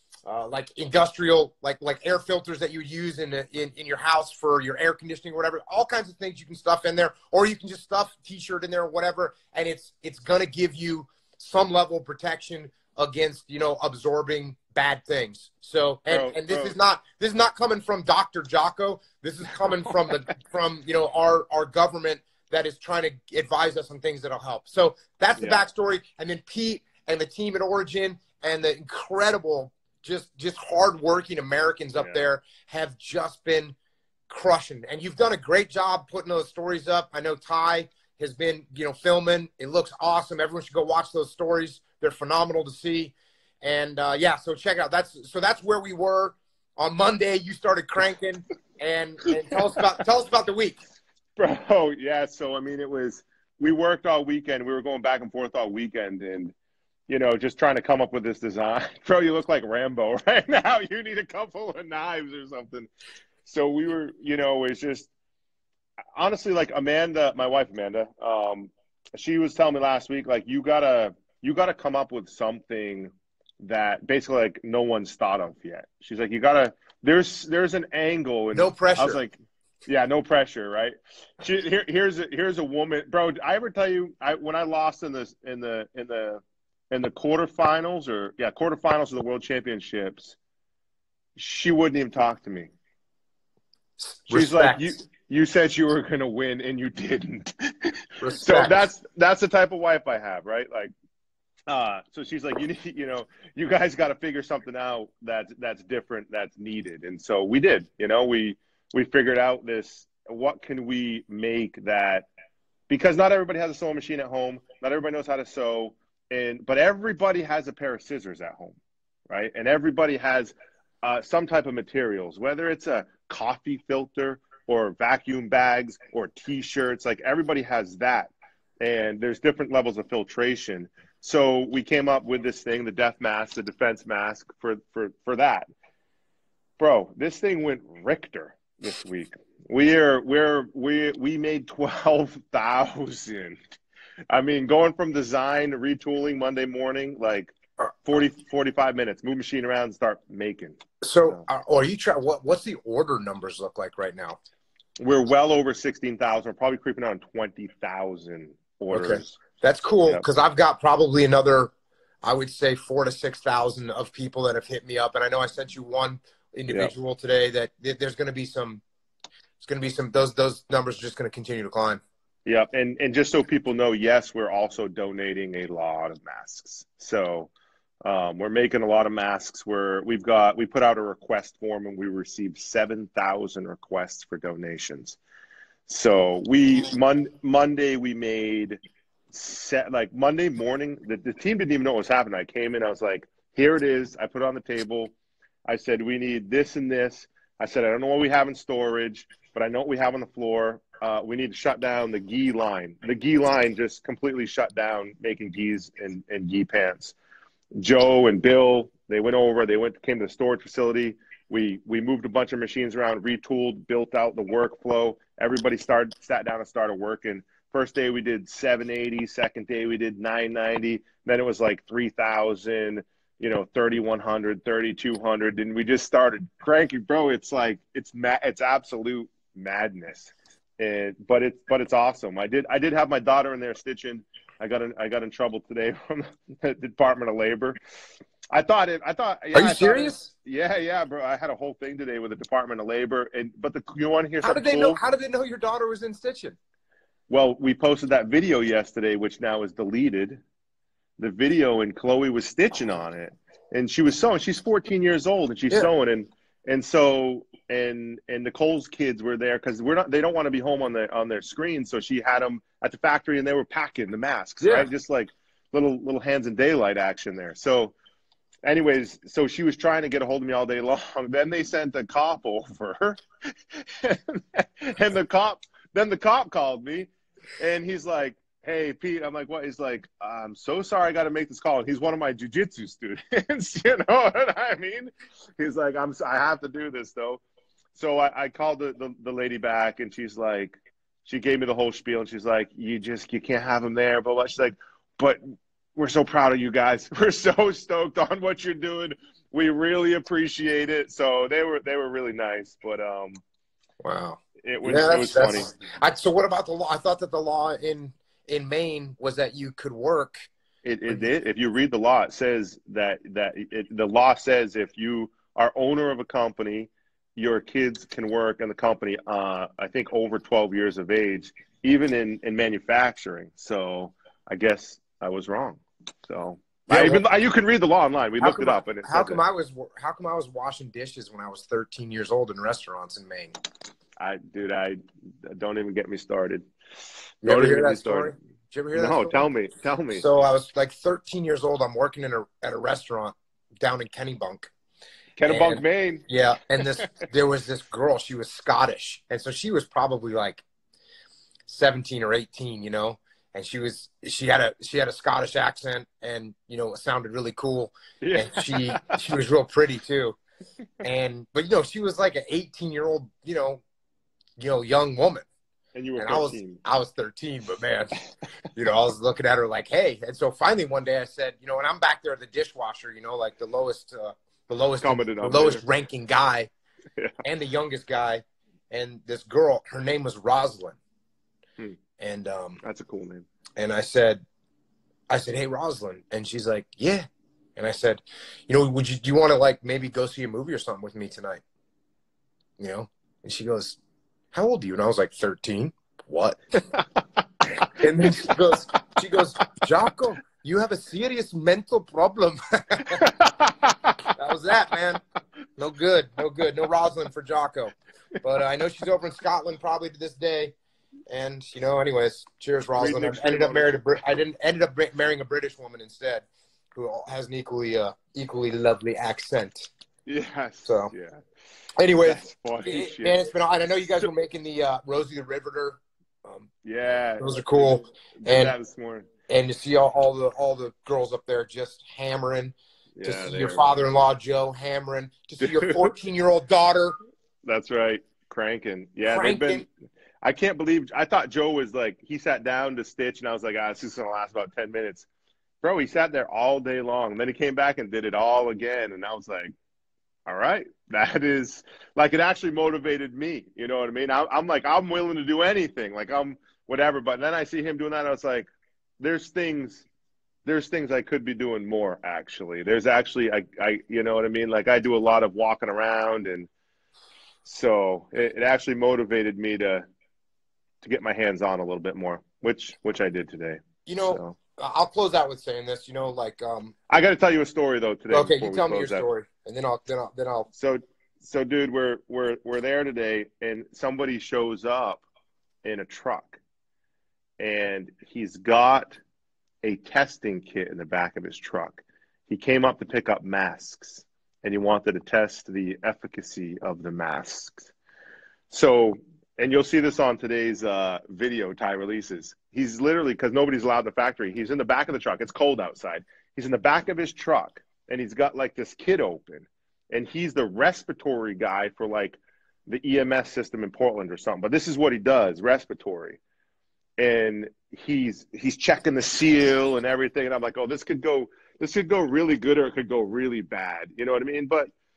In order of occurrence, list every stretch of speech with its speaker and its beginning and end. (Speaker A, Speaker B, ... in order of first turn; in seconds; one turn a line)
Speaker A: 0.2-33.7
Speaker B: 16.1-16.7
Speaker B: 25.4-25.6
Speaker B: 32.0-32.3
Speaker A: 34.3-50.8
Speaker B: 51.4-56.5
Speaker B: 57.1-62.9
Speaker B: 63.4-65.1
Speaker B: 66.2-90.4
Speaker A: 78.5-79.2
Speaker B: 91.3-92.7
Speaker A: 94.0-95.0
Speaker B: 94.3-97.5
Speaker A: 98.2-98.9
Speaker B: 98.4-100.9
Speaker B: 101.7-112.3
Speaker B: 112.9-118.8
Speaker B: 119.3-135.7
Speaker B: 136.8-143.6
Speaker B: 144.3-147.5
Speaker B: 148.0-151.4
Speaker A: 151.0-154.4
Speaker B: 155.0-159.4
Speaker A: 158.9-161.7
Speaker A: 162.2-168.8
Speaker B: 166.7-166.9
Speaker A: 169.6-172.0
Speaker B: 172.4-177.5
Speaker B: 178.0-185.2
Speaker B: 185.8-188.8
Speaker B: 189.3-195.1
Speaker B: 195.7-207.2
Speaker B: 207.7-237.8
Speaker B: 238.5-245.0
Speaker A: 239.5-240.3
Speaker A: 244.4-246.6
Speaker B: 247.3-250.4
Speaker B: 251.2-267.9
Speaker A: 264.6-264.9
Speaker B: 268.6-273.2
Speaker B: 273.7-287.4
Speaker B: 287.9-295.4
Speaker B: 295.9-303.4
Speaker A: 304.0-310.4
Speaker B: 304.6-305.7
Speaker B: 310.8-329.4
Speaker A: 326.9-327.2
Speaker A: 328.4-333.6
Speaker B: 334.2-336.7
Speaker B: 337.4-338.3
Speaker A: 337.4-339.4
Speaker B: 338.9-340.2
Speaker A: 340.1-344.7
Speaker B: 345.4-346.2
Speaker A: 345.4-350.6
Speaker B: 346.8-347.1
Speaker A: 351.7-360.4
Speaker B: 358.2-359.2
Speaker A: 361.0-363.8
Speaker A: 364.6-365.5
Speaker B: 365.9-366.8
Speaker A: 366.2-368.2
Speaker A: 368.7-376.7
Speaker B: 375.0-375.8
Speaker A: 377.4-381.0
Speaker A: 382.2-382.8
Speaker B: 382.8-383.5
Speaker A: 383.8-384.4
Speaker A: 385.3-391.6
Speaker A: 392.8-394.0
Speaker A: 394.5-396.6
Speaker A: 397.9-403.2
Speaker B: 403.2-404.2
Speaker A: 404.4-405.2
Speaker A: 405.8-410.7
Speaker A: 411.3-419.9
Speaker B: 412.9-414.0
Speaker B: 420.2-421.4
Speaker A: 420.8-421.1
Speaker A: 422.0-426.7
Speaker B: 422.2-423.4
Speaker B: 426.8-429.3
Speaker A: 427.4-428.7
Speaker A: 429.5-437.2
Speaker B: 433.1-434.0
Speaker B: 435.6-436.1
Speaker B: 437.6-439.9
Speaker A: 439.2-439.8
Speaker B: 440.4-445.3
Speaker B: 445.8-449.7
Speaker B: 450.4-458.7
Speaker B: 459.2-460.1
Speaker B: 460.6-466.7
Speaker B: 467.6-470.1
Speaker B: 471.0-474.6
Speaker A: 474.1-476.9
Speaker B: 477.1-479.2
Speaker A: 478.3-480.7
Speaker B: 480.7-485.2
Speaker B: 485.8-486.6
Speaker B: 487.6-489.2
Speaker B: 489.8-497.9
Speaker B: 498.7-516.4
Speaker B: 517.2-524.9